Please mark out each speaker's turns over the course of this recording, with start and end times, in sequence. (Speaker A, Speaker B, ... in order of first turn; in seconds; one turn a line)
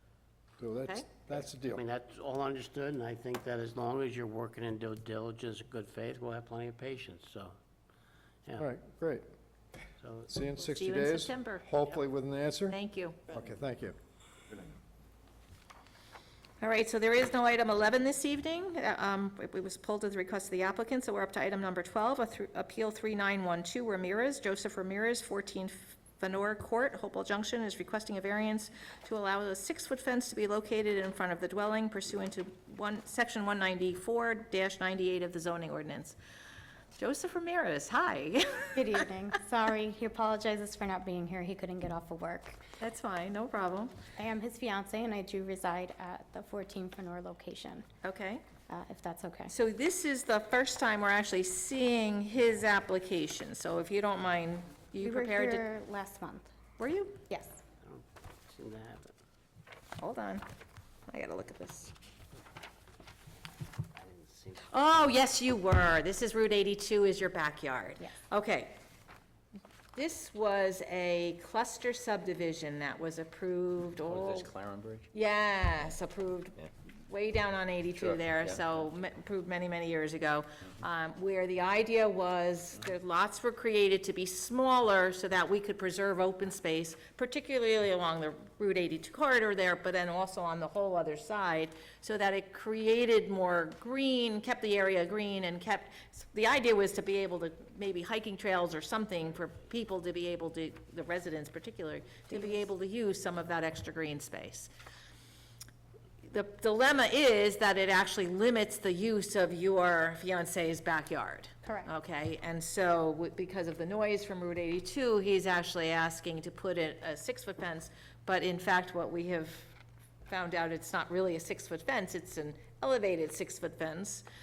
Speaker A: 0.6-1.8
Speaker B: 0.8-1.2
Speaker C: 1.8-7.6
Speaker A: 8.6-9.2
Speaker C: 10.0-10.3
Speaker A: 10.3-14.0
Speaker B: 10.7-11.7
Speaker B: 12.7-13.2
Speaker B: 16.6-36.2
Speaker B: 37.0-39.0
Speaker D: 38.8-42.6
Speaker B: 42.8-43.9
Speaker D: 44.2-47.9
Speaker B: 48.0-48.4
Speaker D: 48.7-49.5
Speaker B: 49.5-55.6
Speaker D: 55.0-56.5
Speaker B: 56.8-57.2
Speaker D: 57.3-57.6
Speaker C: 57.8-59.1
Speaker B: 60.0-60.5
Speaker B: 61.1-61.9
Speaker C: 64.0-64.7
Speaker B: 64.7-68.8
Speaker B: 70.0-74.5
Speaker E: 74.1-75.1
Speaker B: 75.1-76.5
Speaker B: 77.1-104.7
Speaker E: 77.9-78.9
Speaker D: 102.3-102.6
Speaker B: 106.3-119.7
Speaker D: 111.7-111.9
Speaker B: 120.3-124.3